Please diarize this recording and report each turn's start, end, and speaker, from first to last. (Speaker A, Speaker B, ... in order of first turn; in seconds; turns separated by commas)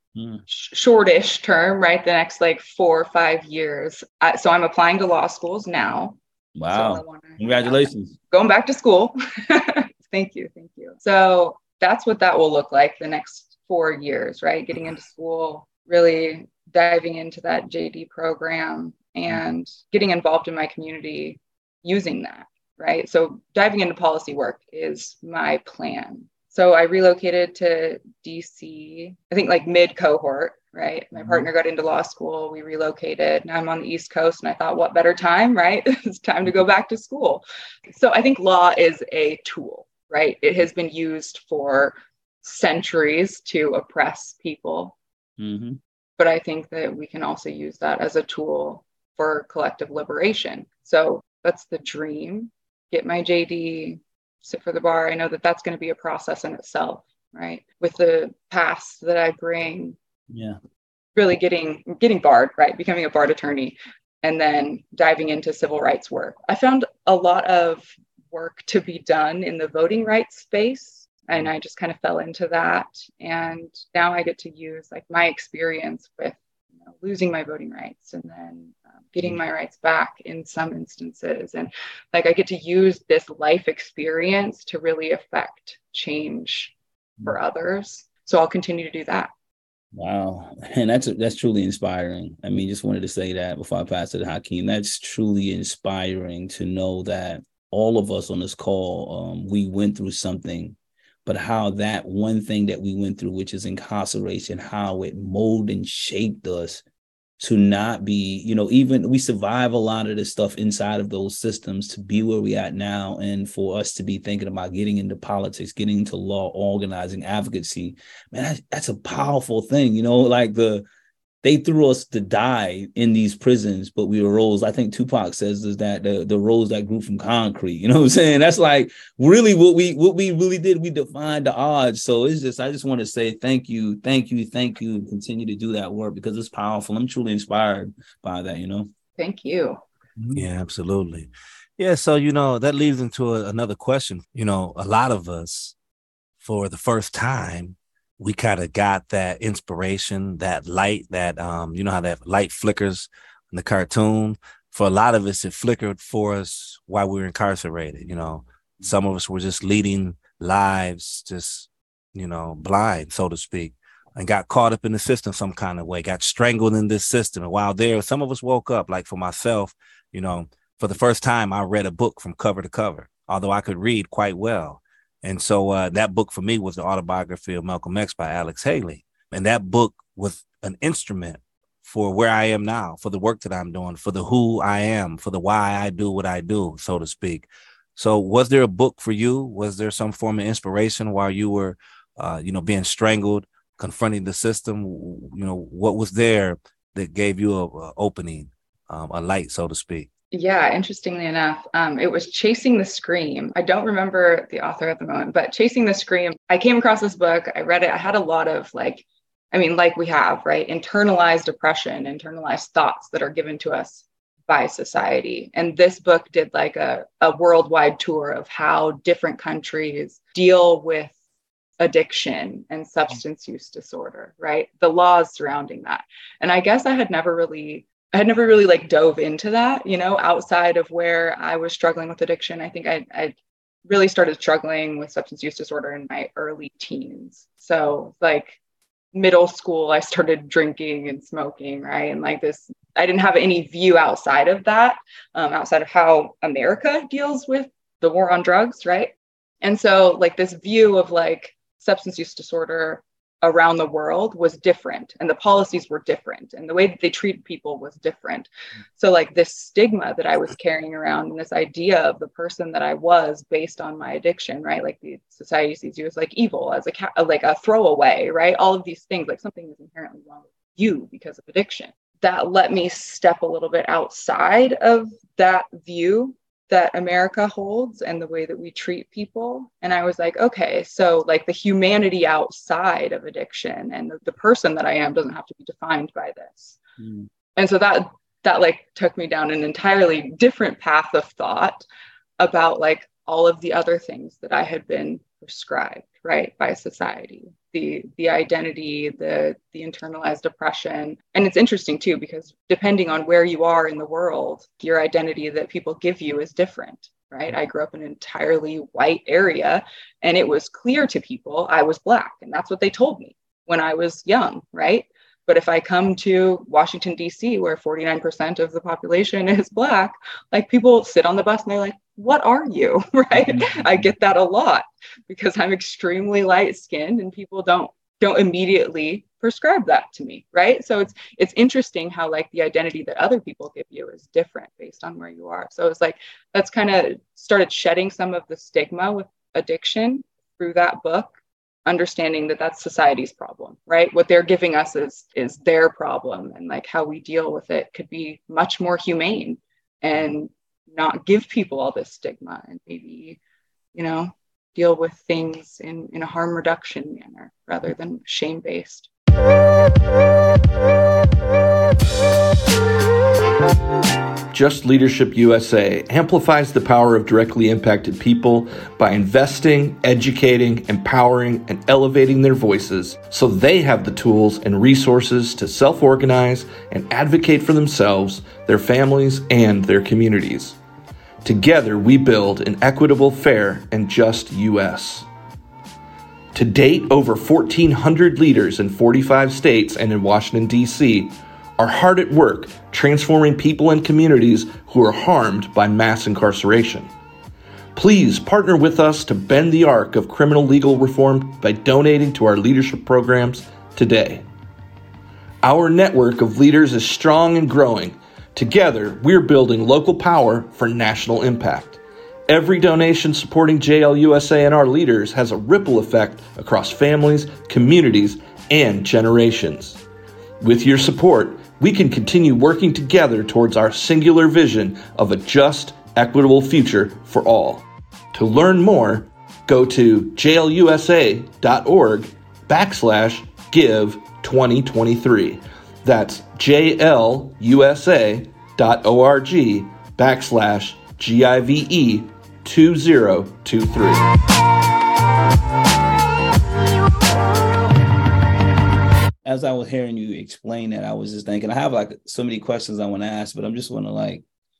Speaker A: 0.1-0.4, Speaker B: 0.5-6.2, Speaker A: 6.5-8.1, Speaker B: 6.7-45.0, Speaker A: 45.4-45.8, Speaker B: 46.2-60.0, Speaker A: 60.3-60.6, Speaker B: 61.1-89.3, Speaker A: 89.9-106.8, Speaker A: 107.4-120.8, Speaker A: 121.4-138.9, Speaker B: 139.2-139.8, Speaker A: 140.2-140.5, Speaker C: 140.3-145.7, Speaker C: 146.4-200.1, Speaker B: 200.3-221.1, Speaker B: 221.8-233.3, Speaker B: 233.9-238.6, Speaker B: 239.1-286.8, Speaker A: 287.0-287.2, Speaker B: 287.6-291.8, Speaker B: 292.4-341.3, Speaker A: 323.4-324.1, Speaker B: 341.9-353.4, Speaker B: 353.9-359.1, Speaker D: 364.5-380.8, Speaker D: 381.4-385.3, Speaker D: 386.5-397.1, Speaker D: 397.9-404.4, Speaker D: 405.6-420.0, Speaker D: 420.6-444.3, Speaker A: 449.4-454.4